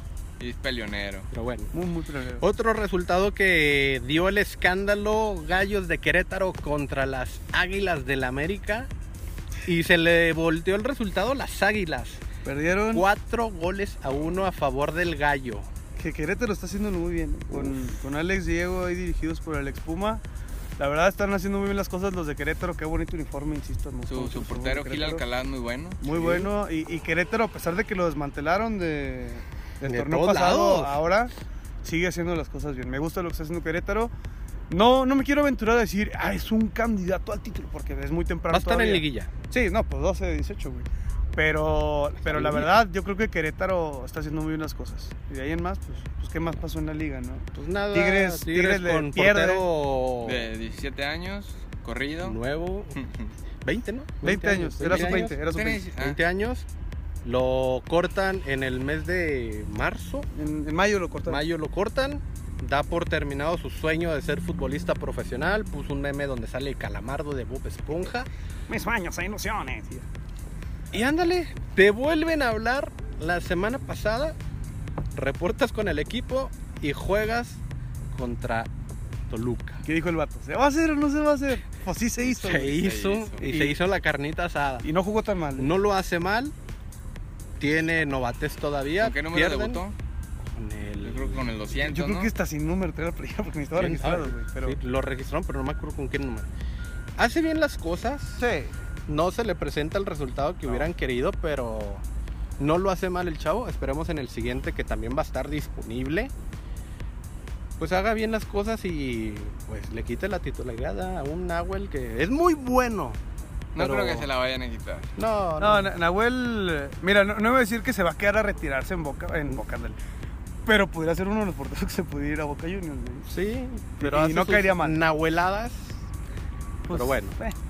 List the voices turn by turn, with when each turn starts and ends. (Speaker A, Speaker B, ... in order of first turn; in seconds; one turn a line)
Speaker A: 0.4-1.3
Speaker B: 1.3-1.7
Speaker C: 1.7-2.4
Speaker B: 2.4-8.9
Speaker B: 9.7-12.2
Speaker C: 12.4-13.1
Speaker B: 12.9-15.7
Speaker C: 16.0-20.2
Speaker C: 20.8-25.2
Speaker A: 24.1-26.0
Speaker C: 26.0-31.3
Speaker B: 26.1-26.5
Speaker B: 29.9-31.0
Speaker C: 31.8-34.1
Speaker C: 34.7-49.6
Speaker B: 38.5-39.3
Speaker B: 42.3-42.7
Speaker B: 47.5-50.5
Speaker A: 50.2-52.4
Speaker B: 52.2-53.0
Speaker A: 52.9-53.3
Speaker B: 53.6-56.7
Speaker C: 54.2-55.9
Speaker A: 54.9-56.2
Speaker B: 57.2-60.3
Speaker C: 60.3-61.4
Speaker B: 61.3-68.3
Speaker C: 68.7-70.1
Speaker B: 70.9-74.4
Speaker B: 75.1-77.6
Speaker B: 78.1-78.7
Speaker B: 79.3-79.8
Speaker C: 79.8-82.8
Speaker B: 82.2-84.9
Speaker A: 82.7-83.5
Speaker C: 83.4-83.8
Speaker C: 84.8-85.7
Speaker B: 85.6-86.5
Speaker B: 87.6-89.8
Speaker A: 89.0-90.0
Speaker B: 90.5-91.5
Speaker A: 91.0-92.3
Speaker C: 91.7-94.8
Speaker B: 93.7-96.5
Speaker B: 97.2-98.5
Speaker C: 98.4-98.7
Speaker B: 99.1-102.0
Speaker B: 102.6-106.3
Speaker B: 107.8-113.2
Speaker A: 113.7-115.1
Speaker B: 113.8-114.3
Speaker B: 115.2-115.9
Speaker C: 115.6-120.0
Speaker C: 120.7-123.3
Speaker B: 123.3-126.0
Speaker C: 124.0-125.0
Speaker C: 126.9-127.5
Speaker B: 126.9-127.4